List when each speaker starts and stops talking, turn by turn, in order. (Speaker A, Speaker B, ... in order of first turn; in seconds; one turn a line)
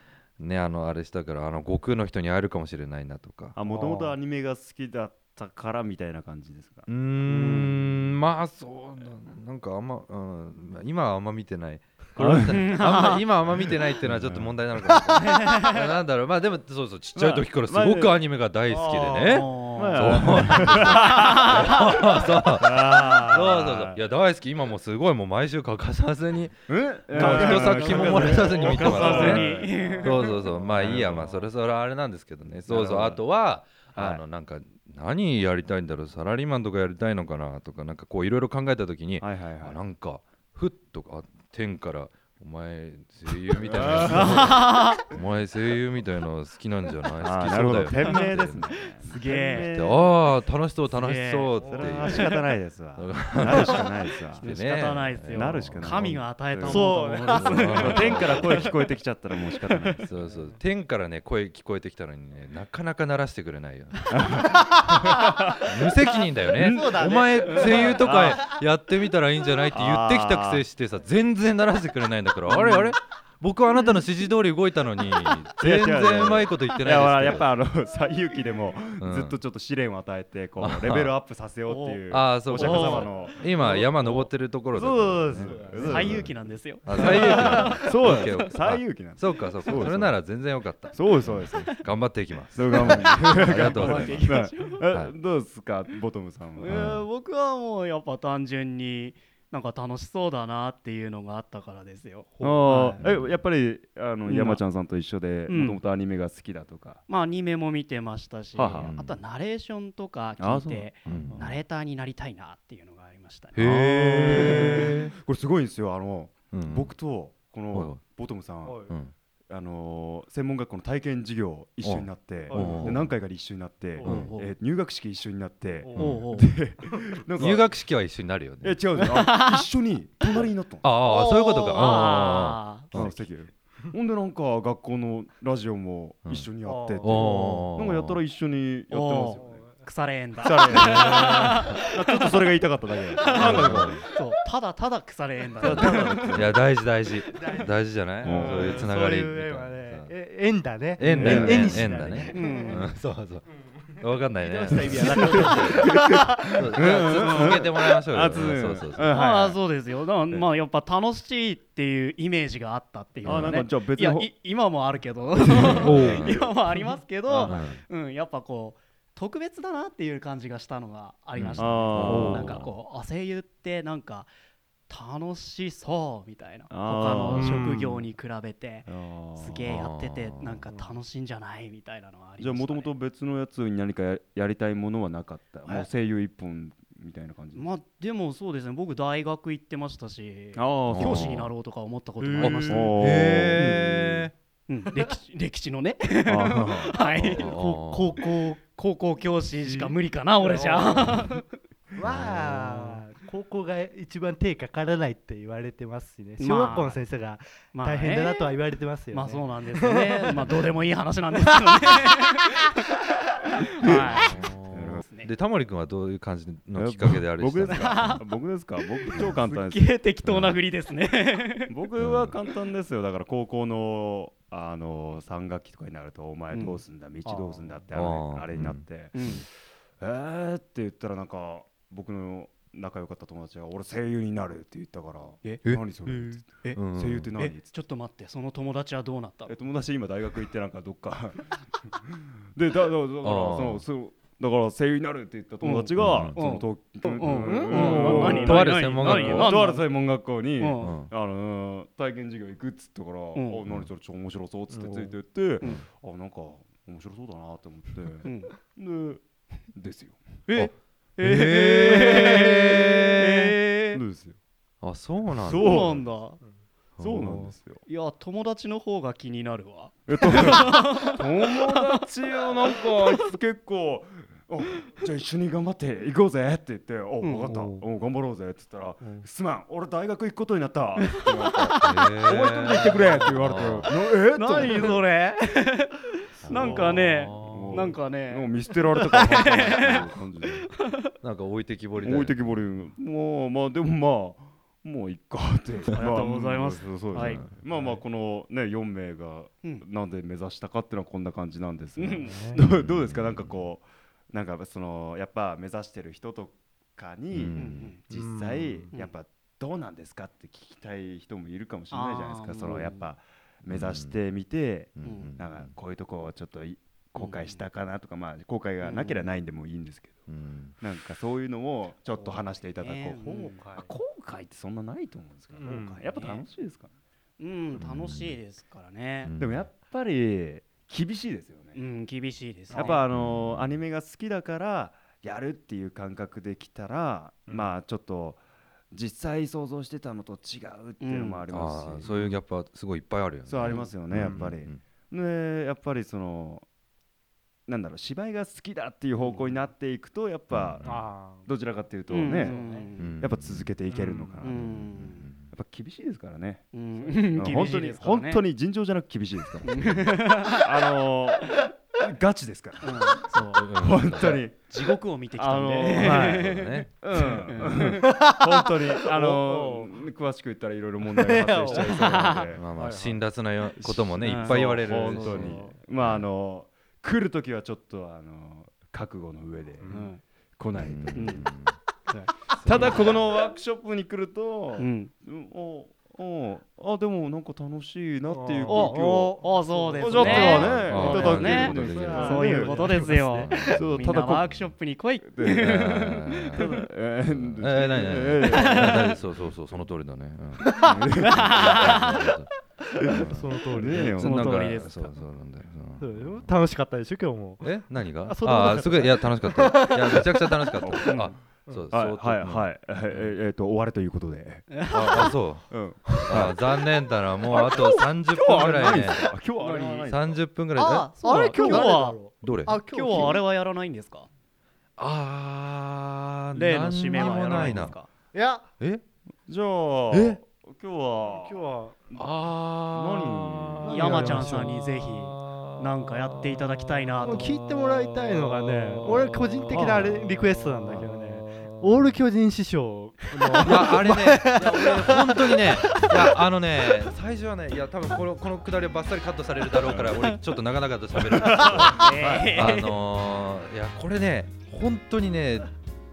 Speaker A: 0.4-3.5
Speaker B: 3.5-6.9
Speaker C: 3.7-4.2
Speaker A: 6.9-48.9
Speaker D: 7.2-7.8
Speaker B: 12.2-12.7
Speaker D: 12.5-13.2
Speaker B: 14.0-14.6
Speaker D: 15.2-15.8
Speaker B: 17.1-18.2
Speaker B: 18.8-21.2
Speaker D: 19.1-22.0
Speaker B: 22.2-24.0
Speaker B: 26.7-31.4
Speaker D: 27.1-30.4
Speaker B: 32.6-33.2
Speaker B: 33.9-34.2
Speaker B: 39.2-39.8
Speaker B: 43.6-44.6
Speaker D: 44.0-45.0
Speaker B: 47.2-50.1
Speaker D: 49.0-49.7
Speaker A: 49.5-56.1
Speaker D: 50.8-52.2
Speaker C: 51.6-52.1
Speaker B: 51.7-54.4
Speaker D: 54.4-58.8
Speaker B: 55.3-56.9
Speaker C: 56.6-58.2
Speaker A: 57.2-58.8
Speaker B: 57.7-60.1
Speaker A: 60.0-64.5
Speaker C: 60.2-60.6
Speaker B: 64.1-65.7
Speaker A: 65.6-77.5
Speaker C: 66.5-68.6
Speaker B: 66.5-68.4
Speaker D: 67.4-67.8
Speaker B: 69.7-70.6
Speaker B: 75.6-86.3
Speaker A: 79.0-79.4
Speaker A: 80.6-81.2
Speaker D: 81.7-83.1
Speaker A: 82.1-86.3
Speaker C: 85.4-85.9
Speaker D: 85.8-88.4
Speaker A: 86.8-94.4
Speaker B: 86.9-90.3
Speaker B: 90.9-91.7
Speaker B: 92.5-96.7
Speaker D: 92.7-94.9
Speaker D: 96.6-103.0
Speaker A: 96.7-97.0
Speaker B: 102.4-107.0
Speaker A: 103.0-103.3
Speaker D: 104.2-104.6
Speaker D: 105.5-105.8
Speaker D: 107.1-113.6
Speaker B: 108.5-108.9
Speaker A: 108.8-109.2
Speaker B: 110.4-111.5
Speaker A: 111.0-111.4
Speaker A: 113.5-115.1
Speaker B: 113.6-118.9
Speaker D: 114.3-114.7
Speaker A: 116.5-116.9
Speaker A: 117.7-118.0
Speaker C: 118.6-118.9
Speaker A: 118.9-119.1
Speaker B: 119.5-127.7
Speaker A: 121.8-123.1
Speaker C: 122.5-123.0
Speaker C: 124.0-124.3
Speaker A: 124.0-124.3
Speaker D: 124.1-124.5
Speaker C: 125.8-126.2
Speaker A: 125.9-126.2
Speaker D: 126.0-126.5
Speaker A: 127.3-129.0
Speaker B: 128.6-131.0
Speaker D: 129.0-129.6
Speaker A: 130.8-133.2
Speaker C: 131.1-132.0
Speaker D: 131.6-133.1
Speaker B: 132.9-139.7
Speaker A: 136.2-138.2
Speaker C: 136.6-137.7
Speaker D: 138.9-142.3
Speaker C: 139.3-139.9
Speaker B: 140.4-144.0
Speaker A: 140.7-141.6
Speaker D: 143.1-146.5
Speaker A: 143.2-144.0
Speaker C: 143.4-144.2
Speaker B: 145.6-146.6
Speaker A: 145.6-150.1
Speaker C: 147.3-152.9
Speaker B: 148.2-148.9
Speaker A: 151.0-159.2
Speaker B: 151.1-151.9
Speaker D: 151.1-151.6
Speaker D: 152.3-152.9
Speaker C: 154.3-156.4
Speaker B: 154.7-159.6
Speaker D: 157.1-157.6
Speaker D: 159.1-174.3
Speaker B: 163.2-164.3
Speaker A: 163.2-163.6
Speaker B: 165.5-166.1
Speaker A: 165.5-166.5
Speaker C: 165.7-166.3
Speaker A: 167.3-167.8
Speaker A: 171.3-172.7
Speaker B: 171.6-172.5
Speaker C: 172.1-172.6
Speaker D: 174.9-182.9
Speaker B: 176.7-177.7
Speaker C: 177.3-178.0
Speaker B: 178.8-179.6
Speaker A: 179.7-180.6
Speaker B: 182.4-187.7
Speaker D: 187.5-193.1
Speaker B: 190.6-191.4
Speaker A: 190.9-191.5
Speaker C: 192.2-192.9
Speaker A: 192.4-194.3
Speaker B: 192.7-194.2
Speaker D: 194.7-197.5
Speaker B: 196.2-197.0
Speaker C: 197.1-198.6
Speaker A: 197.2-198.2
Speaker D: 198.2-201.5
Speaker C: 199.6-201.1
Speaker C: 201.9-210.6
Speaker A: 202.0-202.7
Speaker D: 206.4-207.0
Speaker D: 207.7-208.6
Speaker D: 209.1-212.7
Speaker C: 211.3-211.9
Speaker D: 213.5-214.3
Speaker B: 213.8-215.0
Speaker A: 213.9-218.2
Speaker D: 214.9-215.3
Speaker B: 216.7-220.0
Speaker D: 217.6-218.3
Speaker D: 219.1-221.7
Speaker A: 220.2-220.6
Speaker B: 221.7-229.1
Speaker A: 222.0-222.3
Speaker D: 226.5-226.8
Speaker C: 227.2-227.7
Speaker A: 227.9-228.9
Speaker D: 229.1-229.4
Speaker B: 230.0-237.8
Speaker D: 235.4-236.8
Speaker A: 236.7-237.3
Speaker D: 237.3-239.5
Speaker B: 239.5-260.5
Speaker A: 243.2-243.8
Speaker D: 245.6-249.9
Speaker A: 246.0-246.4
Speaker C: 247.1-248.6
Speaker A: 247.7-249.6
Speaker D: 250.6-250.9
Speaker A: 250.8-251.1
Speaker D: 253.3-253.6
Speaker C: 254.7-255.1
Speaker D: 258.2-258.5
Speaker D: 260.5-264.0
Speaker A: 261.2-263.3
Speaker B: 263.9-264.4
Speaker A: 264.8-266.0
Speaker B: 265.4-266.0
Speaker D: 265.4-266.4
Speaker A: 267.0-267.5
Speaker B: 267.0-267.8
Speaker D: 267.8-272.0
Speaker B: 270.1-285.0
Speaker D: 272.8-273.1
Speaker D: 277.2-277.8
Speaker D: 281.0-281.9
Speaker A: 281.7-283.9
Speaker D: 283.9-291.1
Speaker A: 286.4-288.0
Speaker B: 286.5-290.7
Speaker A: 289.4-290.1
Speaker A: 291.2-292.6
Speaker B: 292.0-320.3
Speaker D: 295.9-297.5
Speaker A: 297.1-297.5
Speaker D: 302.0-302.5
Speaker C: 302.2-302.6
Speaker A: 302.7-303.7
Speaker A: 307.3-307.9
Speaker D: 307.5-308.0
Speaker C: 308.1-308.9
Speaker D: 311.9-313.0
Speaker A: 313.7-314.1
Speaker A: 315.0-315.7
Speaker D: 315.0-315.3
Speaker D: 317.2-317.6
Speaker D: 318.8-319.3
Speaker A: 320.3-320.7
Speaker B: 320.8-326.9
Speaker D: 322.1-323.6
Speaker C: 323.2-323.9
Speaker C: 325.5-326.2
Speaker D: 326.1-326.4
Speaker D: 327.4-329.3
Speaker A: 327.7-328.4
Speaker A: 329.2-329.7
Speaker B: 329.4-331.8
Speaker D: 331.7-333.0
Speaker C: 332.7-333.0
Speaker B: 332.7-338.4
Speaker A: 333.1-333.8
Speaker B: 338.9-342.2
Speaker D: 341.0-341.4
Speaker A: 341.5-344.8
Speaker B: 343.4-346.6
Speaker D: 343.6-343.9
Speaker C: 344.2-344.5
Speaker B: 347.7-352.6
Speaker D: 349.2-349.6
Speaker A: 350.5-351.1
Speaker C: 350.8-351.5
Speaker D: 352.1-353.1
Speaker C: 352.2-352.9
Speaker A: 352.9-353.7
Speaker B: 353.2-354.7
Speaker C: 353.9-354.4
Speaker D: 354.4-355.3
Speaker A: 354.5-355.5
Speaker B: 355.5-356.7
Speaker D: 356.7-358.4
Speaker C: 357.0-357.4
Speaker B: 357.3-372.6
Speaker D: 359.6-360.6
Speaker D: 362.8-363.7
Speaker A: 363.5-364.4
Speaker D: 364.6-368.0
Speaker A: 366.0-366.9
Speaker C: 367.6-369.9
Speaker C: 371.2-374.3
Speaker D: 371.6-372.5
Speaker A: 372.3-376.2
Speaker D: 374.1-374.6
Speaker B: 374.3-379.9
Speaker C: 374.8-375.8
Speaker C: 379.8-380.1
Speaker D: 379.9-380.2
Speaker B: 380.6-381.5
Speaker A: 380.7-381.8
Speaker D: 381.1-381.4
Speaker C: 382.1-383.0
Speaker B: 382.6-389.4
Speaker A: 382.6-383.2
Speaker D: 384.8-385.1
Speaker C: 388.3-393.5
Speaker D: 388.7-396.8
Speaker B: 390.0-394.5
Speaker A: 390.1-394.7
Speaker B: 395.3-395.9
Speaker A: 395.6-396.6
Speaker B: 396.5-399.1
Speaker A: 397.2-406.6
Speaker D: 398.4-399.1
Speaker C: 400.6-400.9
Speaker B: 400.8-401.8
Speaker D: 401.2-402.3
Speaker C: 403.0-404.6
Speaker B: 403.7-404.8
Speaker D: 404.1-405.1
Speaker C: 406.0-410.9
Speaker A: 407.6-413.3
Speaker B: 410.8-411.3
Speaker D: 411.0-411.4
Speaker B: 411.9-414.8
Speaker D: 414.7-415.3
Speaker A: 414.9-419.3
Speaker B: 415.7-416.6
Speaker B: 417.5-420.4
Speaker D: 419.6-420.0
Speaker A: 420.1-421.2
Speaker C: 420.8-423.4
Speaker D: 420.8-422.2
Speaker B: 421.4-421.9
Speaker A: 422.3-422.8
Speaker D: 422.8-424.3
Speaker A: 425.0-428.0
Speaker D: 426.5-428.1
Speaker B: 427.5-427.8
Speaker C: 428.3-428.6
Speaker B: 429.5-432.3
Speaker A: 430.1-430.4
Speaker C: 431.3-432.1
Speaker A: 432.2-441.9
Speaker B: 432.9-434.4
Speaker C: 433.8-434.8
Speaker D: 433.9-437.6
Speaker C: 437.2-446.3
Speaker A: 443.6-455.7
Speaker B: 449.8-450.3
Speaker B: 451.2-452.7
Speaker D: 451.9-453.0